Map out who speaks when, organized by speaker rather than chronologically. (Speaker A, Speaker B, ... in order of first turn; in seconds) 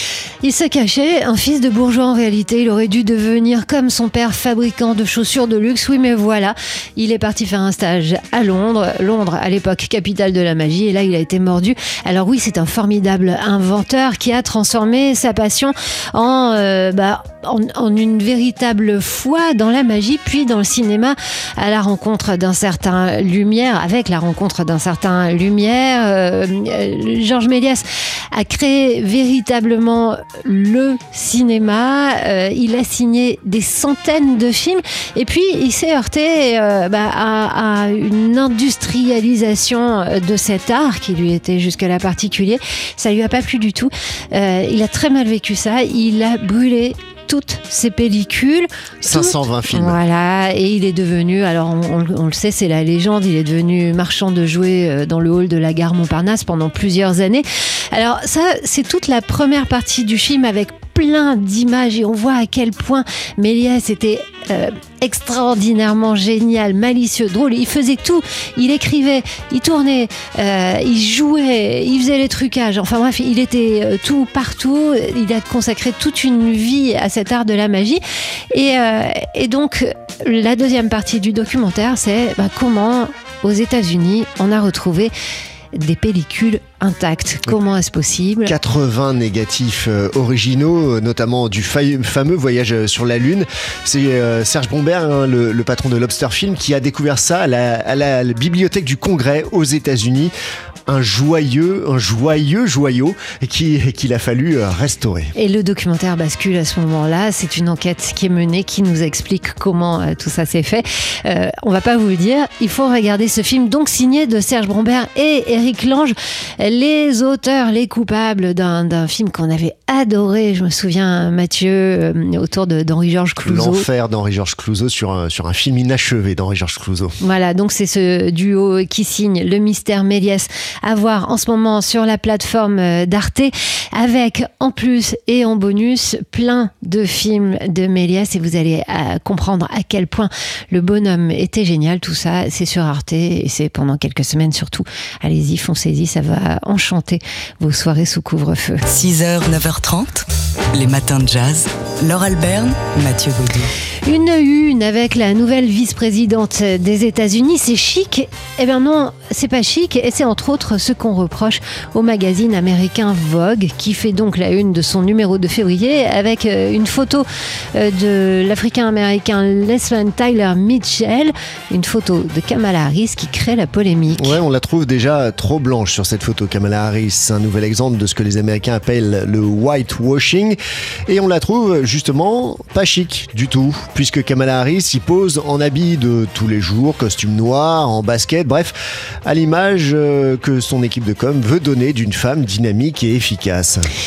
Speaker A: 0.4-85.1, 85.7-88.5, 105.3-123.9, 127.2-148.8, 154.0-174.4
Speaker B: 49.0-50.0, 88.5-100.3, 100.9-105.3, 123.4-127.1, 174.1-193.9
Speaker C: 148.9-153.7